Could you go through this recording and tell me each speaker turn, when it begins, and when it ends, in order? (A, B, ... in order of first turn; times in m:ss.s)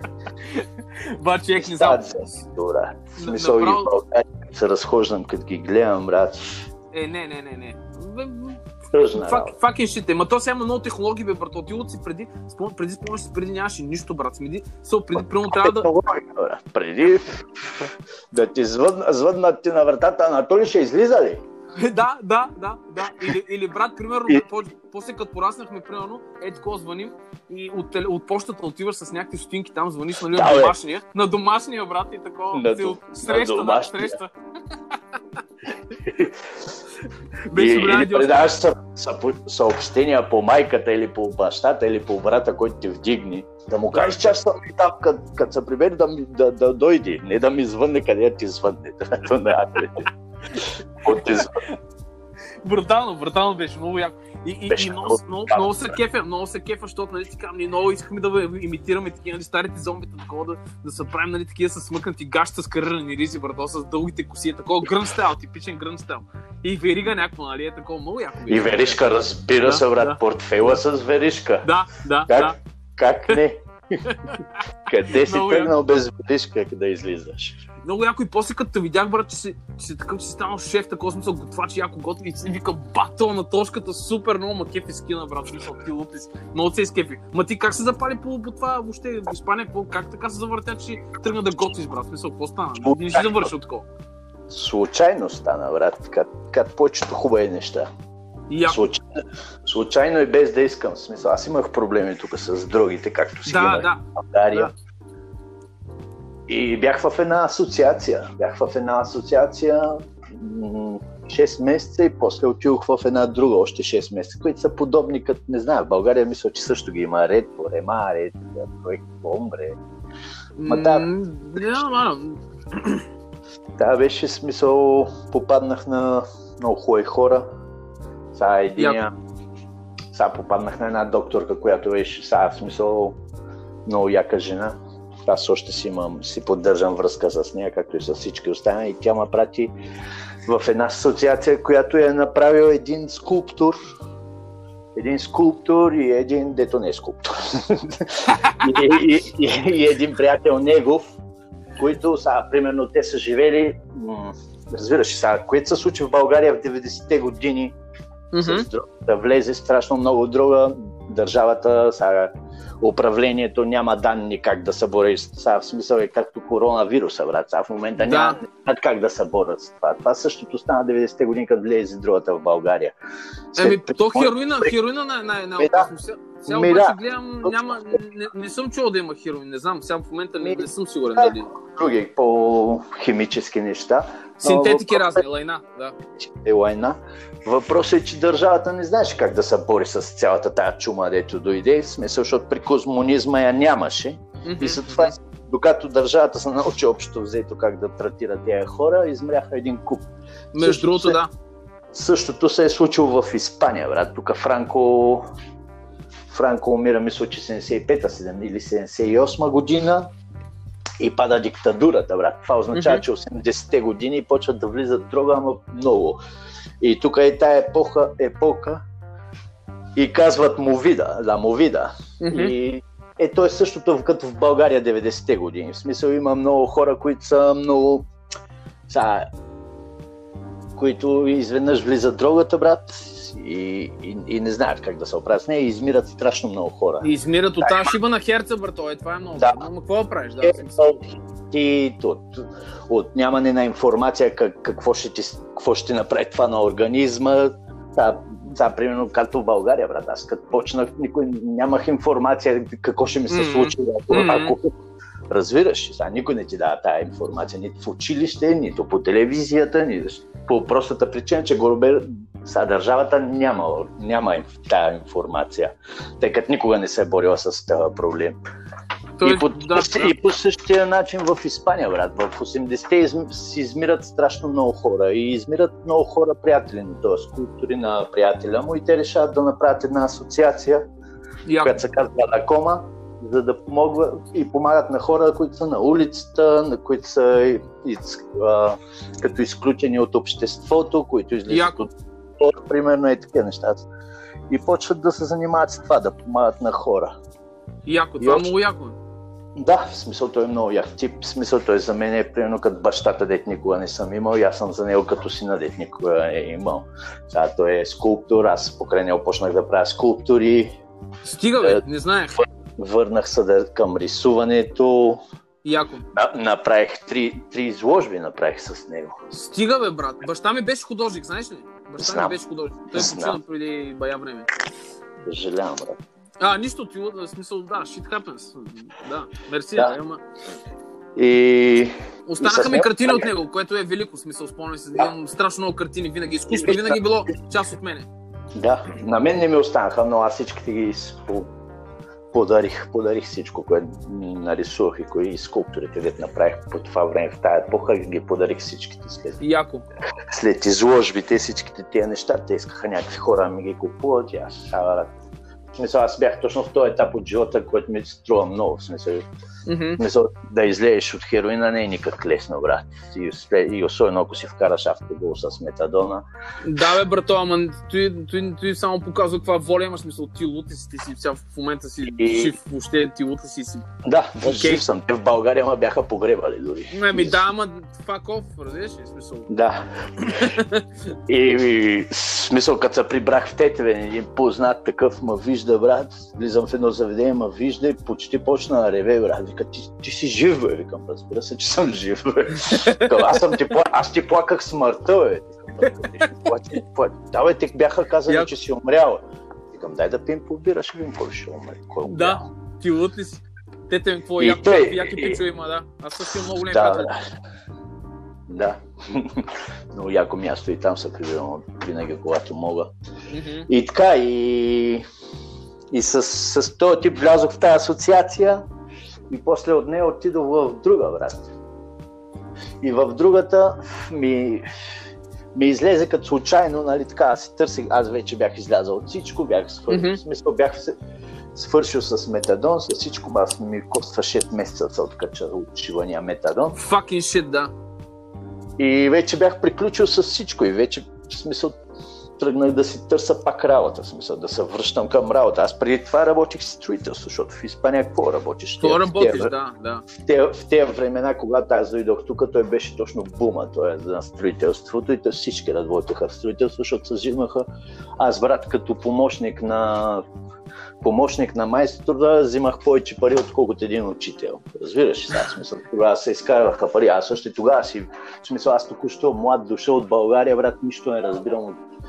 0:00.5-0:02.2 A
0:01.6-0:06.6 B
0:03.2-0:03.9 A
0:06.9-0:15.9 A
0:08.9-0:09.5 B
0:15.2-0:21.4 B
0:21.8-0:34.3 A
0:30.3-0:30.8 B
0:32.5-0:34.2 B
0:36.0-0:36.4 B
0:37.5-0:38.5 A
0:37.5-0:50.1 B
0:43.9-0:44.3 A
0:51.0-0:51.6 B
0:51.1-0:51.8 A
0:52.6-1:09.0 A
0:54.7-0:56.0 B
1:08.5-1:11.7 B
1:09.6-1:10.2 A
1:11.6-1:12.6 A
1:12.3-1:14.0 B
1:14.1-1:14.6 A
1:14.9-1:17.6 B
1:15.2-1:15.7 A
1:17.8-1:33.9 A
1:32.8-1:33.5 B
1:34.5-1:37.9 B
1:38.5-1:38.8 A
1:38.7-1:39.0 B
1:39.6-1:44.7 B
1:43.5-1:44.7 A
1:46.5-1:59.8 B
2:00.6-2:03.0 A
2:00.7-2:01.1 B
2:03.8-2:07.5 B
2:08.3-2:09.1 B
2:10.1-2:13.2 B
2:13.9-2:19.7 B
2:20.5-2:23.8 B
2:25.0-2:31.2 B
2:28.3-2:29.0 A
2:31.8-2:37.8 B
2:38.3-2:38.7 A
2:38.4-2:53.0 B
2:48.0-2:48.4 A
2:53.6-2:54.7 B
2:53.6-3:01.5 A
2:55.6-2:55.9 B
2:56.5-2:57.6 B
3:00.4-3:05.2 B
3:04.4-3:06.0 A
3:06.2-3:20.0 B
3:14.4-3:15.2 A
3:20.5-3:21.3 A
3:20.6-3:21.2 B
3:21.9-3:25.3 B
3:26.3-3:30.1 B
3:31.0-3:36.2 B
3:32.7-3:33.0 A
3:36.8-3:38.8 B
3:40.0-3:48.1 B
3:42.2-3:42.5 A
3:48.9-3:49.3 B
3:50.8-3:57.1 B
3:57.0-4:00.8 A
3:57.6-3:58.0 B
3:59.4-3:59.6 B
4:00.4-4:14.8 B
4:13.3-4:14.6 A
4:15.3-4:28.4 B
4:29.2-4:30.1 A
4:29.2-4:40.8 B
4:41.5-4:41.8 A
4:41.6-4:53.9 B
4:51.5-4:51.8 A
4:54.5-4:57.1 B
4:57.9-4:59.0 A
4:58.2-4:58.5 B
4:59.6-5:10.7 B
5:11.2-5:12.5 A
5:12.8-5:15.2 B
5:15.6-5:16.0 A
5:16.1-5:19.2 B
5:19.3-5:24.5 A
5:22.0-5:22.4 B
5:22.9-5:23.4 B
5:25.2-5:26.0 B
5:26.4-5:30.2 A
5:31.2-5:33.3 B
5:32.3-5:38.1 A
5:36.5-5:37.0 B
5:38.6-5:41.5 B
5:42.3-5:49.4 B
5:49.4-5:49.8 A
5:50.3-5:55.1 B
5:55.8-5:59.2 B
5:59.7-6:00.0 A
6:00.0-6:06.2 B
6:06.6-6:13.8 A
6:12.1-6:12.5 B
6:14.0-6:17.4 B
6:14.4-6:14.8 A
6:16.9-6:19.5 A
6:19.5-6:20.5 B
6:20.2-6:20.9 A
6:21.3-6:42.4 B
6:32.6-6:33.4 A
6:35.8-6:36.3 A
6:42.1-6:47.1 A
6:44.4-6:45.4 B
6:46.3-6:47.2 B
6:48.5-6:52.9 B
6:53.3-6:53.7 A
6:53.7-6:55.0 B
6:55.9-6:58.6 B
6:59.3-7:01.5 B
7:02.8-7:04.7 B
7:05.5-7:10.9 B
7:09.9-7:10.2 A
7:11.6-7:16.8 B
7:16.8-7:17.7 A
7:18.8-7:21.8 B
7:22.4-7:29.5 B
7:28.8-7:30.1 A
7:30.2-7:37.7 B
7:38.2-7:40.2 B
7:41.0-7:51.8 B